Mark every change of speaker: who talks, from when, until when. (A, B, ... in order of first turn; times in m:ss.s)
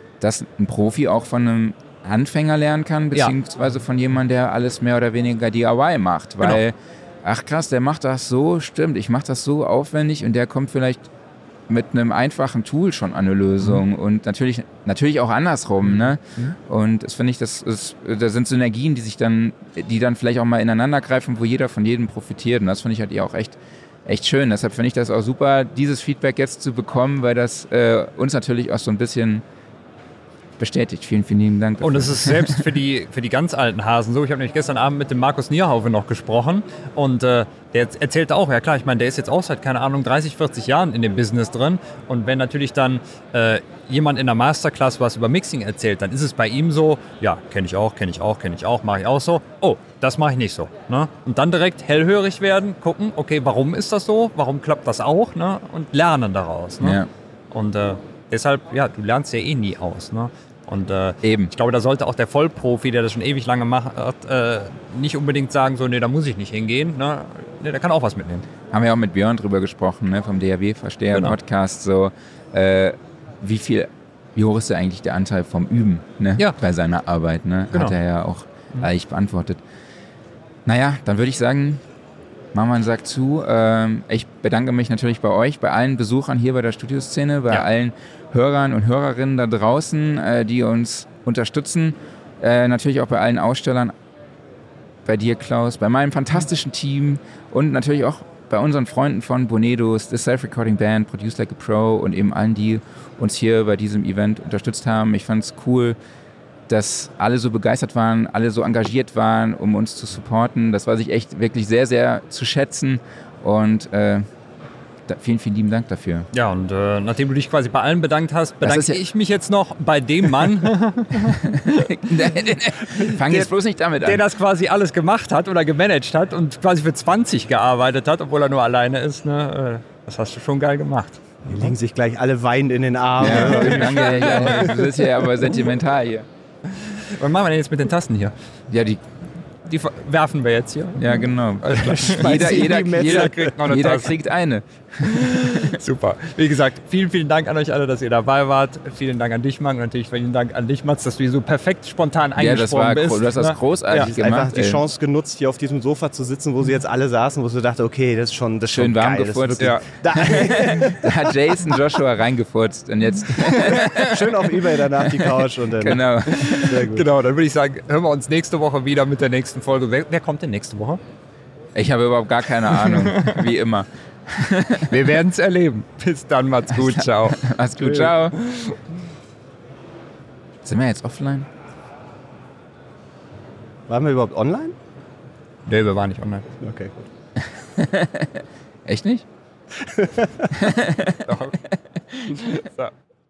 0:00.2-0:11.1 A
0:11.7-0:29.4 A
0:30.6-0:32.6 A
0:31.8-0:57.0 B
0:56.8-0:57.1 A
0:57.5-1:08.5 B
1:01.2-1:01.5 A
1:08.7-1:19.6 A
1:20.7-1:21.8 A
1:22.5-1:33.9 A
1:35.0-1:46.0 A
1:46.7-1:54.3 A
1:55.1-1:56.3 A
1:56.3-2:02.1 B
1:58.6-1:59.0 A
2:01.3-2:04.2 A
2:03.0-2:03.5 B
2:04.0-2:11.2 B
2:11.5-2:14.5 C
2:13.2-2:16.3 A
2:13.2-2:14.9 B
2:16.7-2:18.3 B
2:18.7-2:19.0 A
2:19.7-2:24.2 B
2:21.0-2:25.8 A
2:25.0-2:34.1 B
2:32.4-2:34.8 A
2:34.0-2:41.1 C
2:38.7-2:44.1 A
2:39.6-2:40.7 B
2:43.4-2:44.1 B
2:43.7-2:47.0 C
2:45.8-2:46.7 A
2:46.3-2:51.0 B
2:51.8-2:54.9 A
2:52.7-2:53.4 B
2:54.9-2:58.8 B
2:56.7-2:58.4 A
3:00.6-3:01.5 A
3:03.9-3:04.7 C
3:05.7-3:06.4 B
3:06.6-3:06.9 C
3:07.4-3:09.3 A
3:09.9-3:10.5 C
3:10.6-3:11.3 A
3:11.3-3:11.6 B
3:12.3-3:12.9 B